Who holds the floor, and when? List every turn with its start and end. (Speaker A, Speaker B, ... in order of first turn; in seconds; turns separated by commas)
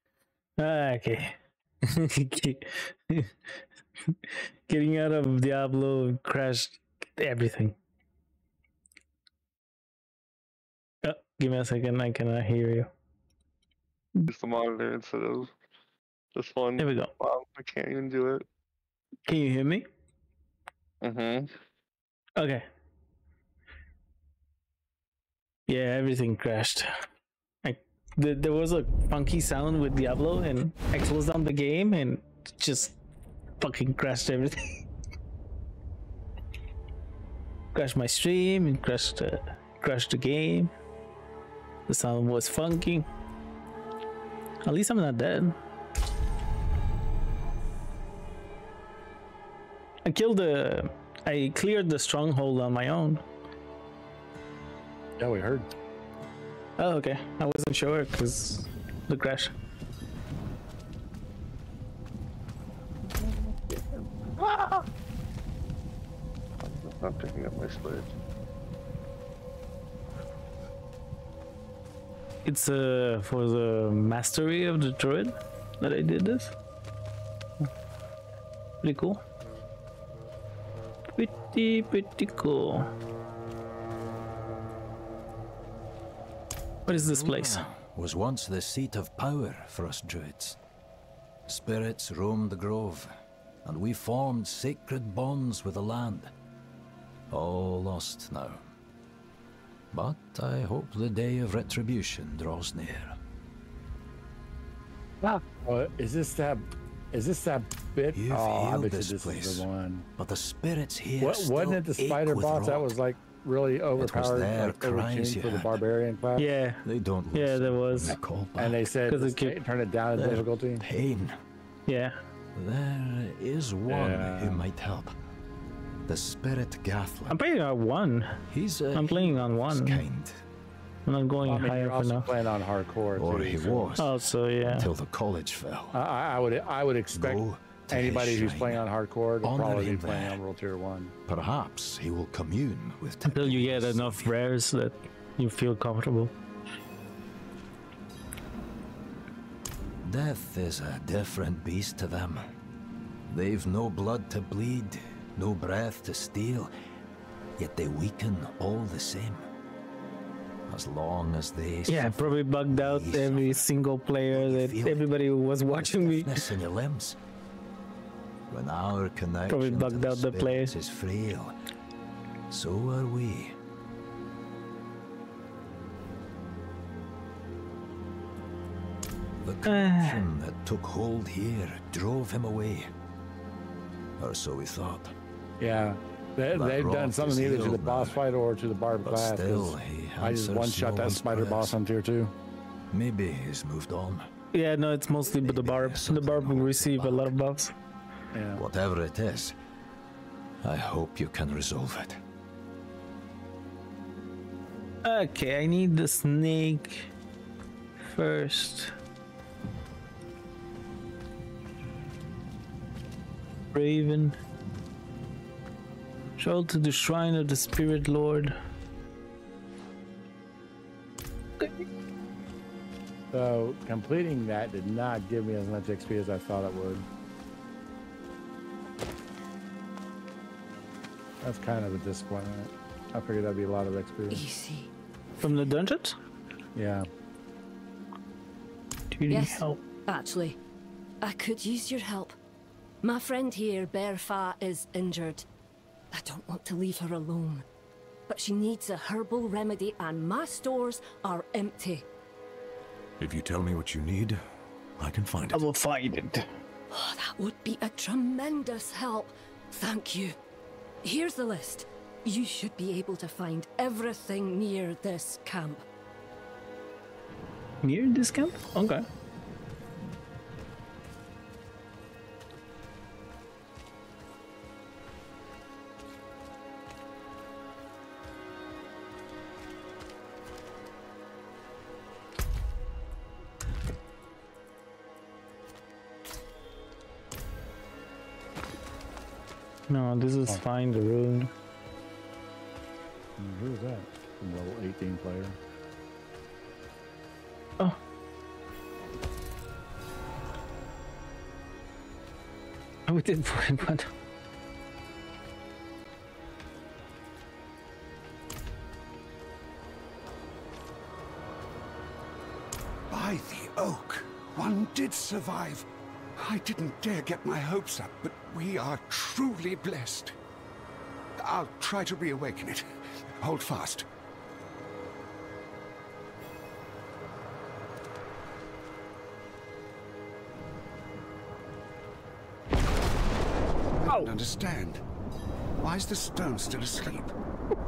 Speaker A: 0.6-3.3, Speaker A: 4.3-7.8, Speaker A: 11.0-12.9, Speaker B: 14.3-15.5, Speaker B: 16.4-18.4, Speaker A: 16.8-17.1, Speaker A: 19.3-19.9, Speaker B: 21.0-21.5, Speaker A: 22.4-22.6, Speaker A: 25.7-26.9, Speaker A: 27.6-33.0, Speaker A: 33.6-34.8, Speaker A: 37.7-40.7, Speaker A: 41.9-43.0, Speaker A: 44.6-45.5, Speaker A: 50.0-53.2, Speaker C: 55.2-55.7, Speaker A: 56.8-59.5, Speaker B: 63.2-63.8, Speaker B: 64.4-64.8, Speaker B: 66.6-68.1, Speaker A: 72.4-76.5, Speaker A: 78.8-79.2, Speaker A: 81.2-82.9, Speaker A: 86.9-87.6, Speaker D: 86.9-90.6, Speaker D: 91.5-93.1, Speaker D: 93.6-96.3, Speaker D: 97.3-98.6, Speaker D: 99.9-103.2, Speaker C: 105.2-110.0, Speaker D: 108.1-112.9, Speaker C: 111.2-116.5, Speaker D: 114.0-115.8, Speaker A: 116.4-118.2, Speaker D: 116.8-118.9, Speaker C: 118.6-120.8, Speaker A: 119.1-119.6, Speaker A: 120.1-120.4, Speaker D: 120.8-121.4, Speaker A: 121.9-122.2, Speaker D: 122.5-125.1, Speaker C: 123.9-124.7, Speaker D: 126.1-127.4, Speaker A: 127.3-128.4, Speaker D: 128.5-130.4, Speaker A: 128.9-130.0, Speaker A: 131.1-132.3, Speaker C: 131.4-133.9, Speaker D: 133.1-136.0, Speaker A: 134.0-134.9, Speaker C: 135.9-141.1, Speaker D: 137.1-138.8, Speaker D: 139.4-140.4, Speaker D: 141.2-144.3, Speaker A: 143.2-146.3, Speaker D: 150.0-152.5, Speaker D: 153.3-156.7, Speaker D: 157.6-159.5, Speaker D: 160.7-163.6, Speaker A: 161.9-166.4, Speaker D: 164.3-165.1, Speaker D: 165.7-167.2, Speaker D: 168.5-171.5, Speaker A: 169.5-170.8, Speaker D: 172.5-173.5, Speaker D: 179.4-182.9, Speaker A: 179.7-180.2, Speaker D: 184.2-185.1, Speaker C: 185.6-192.3, Speaker D: 186.5-188.2, Speaker D: 189.0-191.8, Speaker D: 192.9-194.3, Speaker A: 194.5-197.7, Speaker D: 195.3-197.3, Speaker C: 198.3-198.6, Speaker D: 198.5-199.5, Speaker D: 200.6-202.2, Speaker A: 205.0-207.1, Speaker A: 208.1-208.9, Speaker A: 213.7-214.4, Speaker A: 216.4-218.5, Speaker C: 223.3-227.1, Speaker C: 231.4-234.4, Speaker E: 234.3-234.9, Speaker A: 235.4-236.2, Speaker C: 236.7-237.1, Speaker A: 239.1-239.8, Speaker E: 239.3-240.6, Speaker E: 241.2-242.3, Speaker E: 243.0-245.4, Speaker E: 246.1-247.7, Speaker E: 248.3-252.0, Speaker F: 253.2-254.4, Speaker F: 255.0-255.6, Speaker A: 255.5-256.5, Speaker E: 256.9-260.4, Speaker E: 261.0-265.8, Speaker A: 267.8-269.0, Speaker A: 289.9-291.5, Speaker C: 293.4-295.6, Speaker A: 303.1-304.1, Speaker G: 313.1-320.3, Speaker G: 321.4-322.9, Speaker G: 323.4-324.1, Speaker G: 334.0-335.0, Speaker G: 335.8-337.3